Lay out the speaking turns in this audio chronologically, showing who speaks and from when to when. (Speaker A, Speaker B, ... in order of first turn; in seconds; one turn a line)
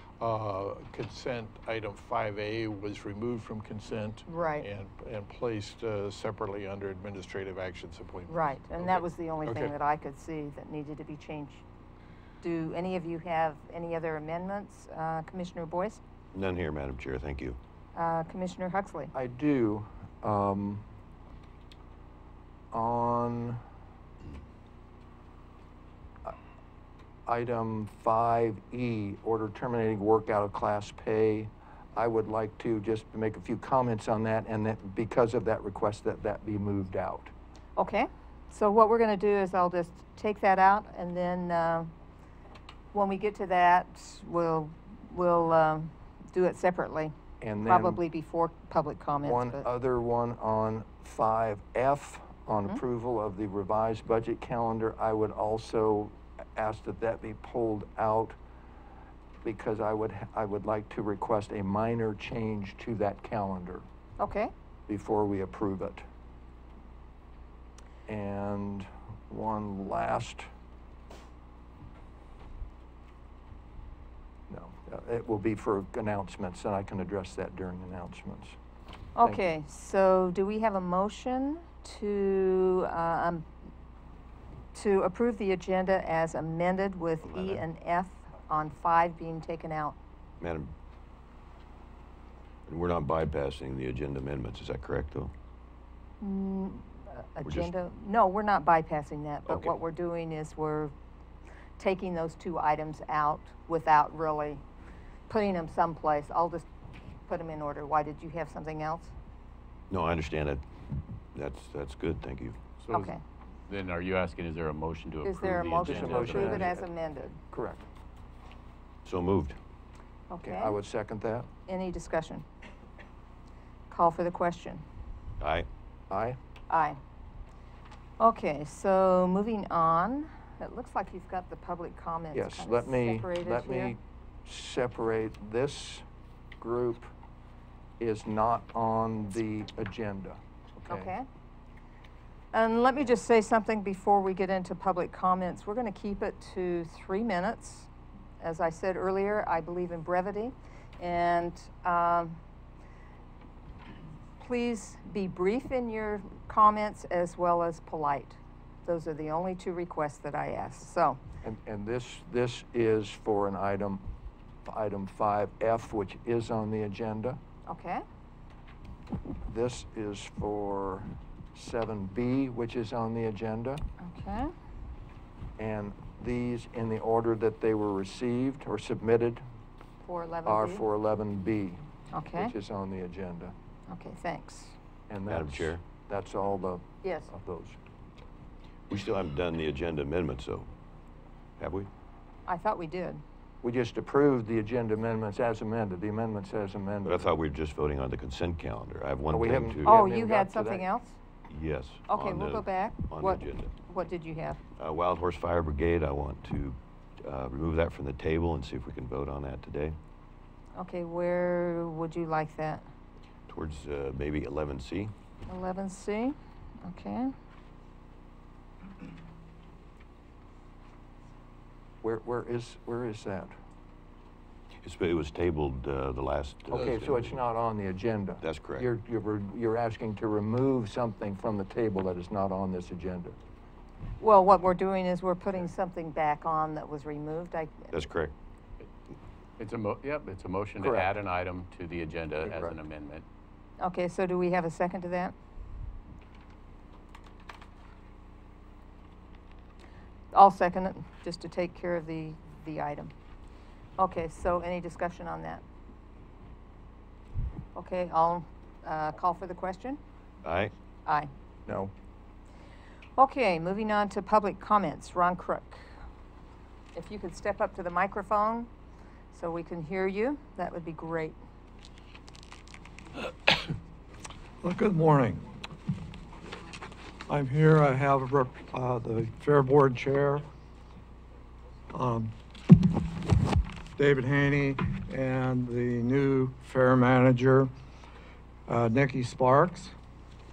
Speaker A: 0.2-9.7
Speaker B: 4.2-4.7
Speaker B: 8.3-11.6
Speaker B: 12.4-16.0
Speaker C: 16.3-17.6
Speaker B: 17.9-19.1
Speaker D: 19.1-20.8
Speaker D: 22.7-23.6
Speaker D: 27.3-37.3
Speaker B: 37.8-41.9
Speaker B: 42.9-47.1
Speaker D: 47.4-48.0
Speaker B: 47.7-49.7
Speaker D: 49.2-58.4
Speaker D: 59.4-63.8
Speaker B: 64.2-64.5
Speaker D: 64.9-66.0
Speaker D: 68.1-70.5
Speaker D: 74.5-78.5
Speaker B: 79.2-83.5
Speaker B: 84.7-89.9
Speaker C: 87.2-87.6
Speaker C: 90.4-90.7
Speaker C: 92.7-95.3
Speaker B: 96.2-100.9
Speaker C: 97.4-97.7
Speaker C: 99.5-99.7
Speaker B: 101.8-104.6
Speaker B: 105.3-106.7
Speaker B: 107.3-109.1
Speaker C: 109.9-110.6
Speaker C: 111.3-112.6
Speaker E: 112.8-113.1
Speaker B: 112.9-113.2
Speaker E: 113.7-116.7
Speaker B: 115.2-117.4
Speaker D: 115.8-116.8
Speaker D: 117.5-117.8
Speaker C: 119.0-119.6
Speaker B: 120.3-120.8
Speaker D: 120.4-121.5
Speaker B: 121.7-122.4
Speaker B: 123.9-124.8
Speaker C: 125.4-125.7
Speaker D: 126.1-126.4
Speaker B: 126.7-127.0
Speaker B: 128.2-133.9
Speaker D: 132.3-136.0
Speaker D: 136.6-137.1
Speaker D: 138.0-141.1
Speaker B: 140.9-141.2
Speaker B: 142.5-147.9
Speaker B: 148.4-152.4
Speaker B: 154.4-161.2
Speaker D: 161.4-164.0
Speaker D: 164.7-167.4
Speaker B: 167.7-168.0
Speaker D: 169.5-173.8
Speaker B: 174.0-174.5
Speaker D: 175.6-179.4
Speaker B: 180.0-180.8
Speaker D: 180.4-181.8
Speaker B: 182.1-182.5
Speaker D: 182.3-183.5
Speaker B: 183.9-184.8
Speaker D: 185.1-187.8
Speaker C: 185.3-185.8
Speaker B: 187.0-187.3
Speaker C: 188.9-190.7
Speaker C: 191.6-191.9
Speaker B: 192.5-193.2
Speaker D: 193.6-197.3
Speaker C: 197.0-199.9
Speaker D: 199.3-200.8
Speaker B: 199.8-201.2
Speaker C: 201.5-203.7
Speaker B: 202.1-204.6
Speaker C: 204.8-209.9
Speaker B: 210.8-212.8
Speaker C: 213.5-215.1
Speaker B: 215.5-217.3
Speaker D: 222.0-223.5
Speaker C: 224.8-227.4
Speaker D: 226.7-233.3
Speaker C: 228.4-228.9
Speaker B: 234.2-237.9
Speaker C: 237.9-238.3
Speaker E: 239.6-243.2
Speaker D: 240.8-241.1
Speaker D: 242.4-242.8
Speaker B: 243.8-245.3
Speaker B: 250.3-253.1
Speaker B: 254.0-255.6
Speaker B: 257.7-260.0
Speaker C: 260.4-260.7
Speaker D: 261.7-261.9
Speaker B: 263.2-265.8
Speaker B: 266.9-268.7
Speaker B: 269.3-271.4
Speaker F: 274.6-275.4
Speaker F: 277.3-280.4
Speaker F: 281.9-282.3
Speaker F: 283.9-287.7
Speaker F: 288.7-289.9